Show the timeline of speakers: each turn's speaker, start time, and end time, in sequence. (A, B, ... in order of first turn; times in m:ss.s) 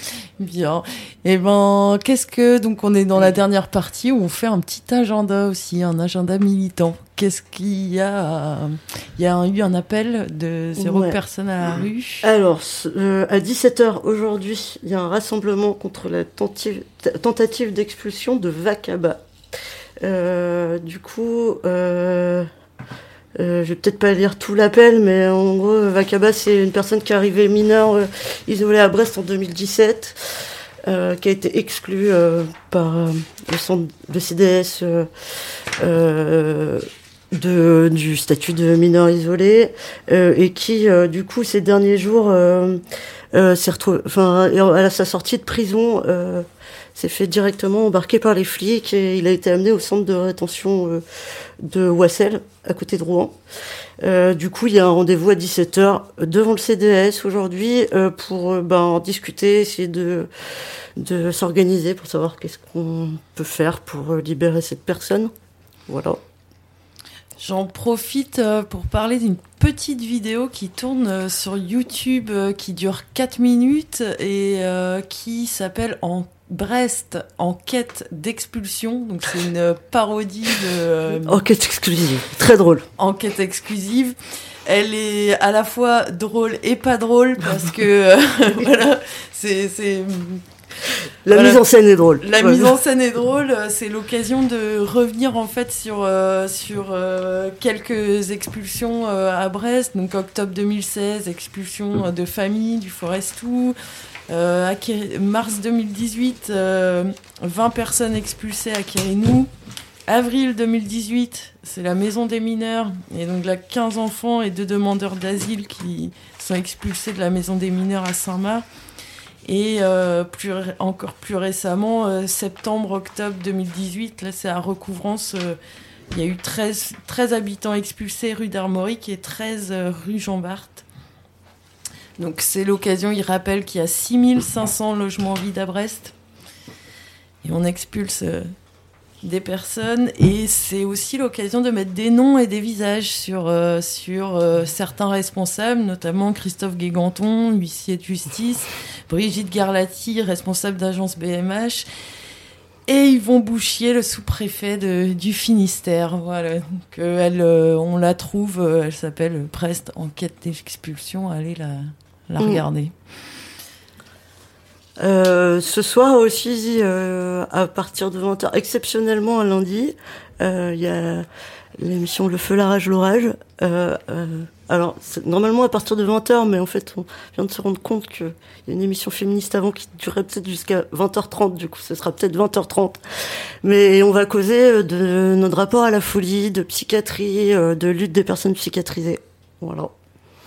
0:00.4-0:12.2 A
0:10.8-0:11.2 B
0:12.2-0:19.2 B
0:20.0-0:22.5 B
0:23.4-0:35.1 B
0:35.8-0:42.8 B
0:43.3-0:51.0 B
0:51.6-0:53.4 B
0:54.0-1:00.3 B
1:01.0-1:05.3 B
1:05.9-1:06.2 B
1:07.4-1:21.4 A
1:21.2-1:22.8 B
1:23.0-1:30.4 A
1:31.2-1:32.7 B
1:32.2-1:43.8 A
1:44.3-1:49.5 A
1:50.1-1:58.6 A
1:59.4-2:05.6 A
2:06.1-2:10.8 A
2:12.2-2:16.1 A
2:17.4-2:18.5 A
2:19.2-2:31.9 A
2:32.9-2:42.9 A
2:42.4-2:42.6 B
2:45.0-2:51.2 B
2:51.8-3:03.0 B
3:03.6-3:09.9 B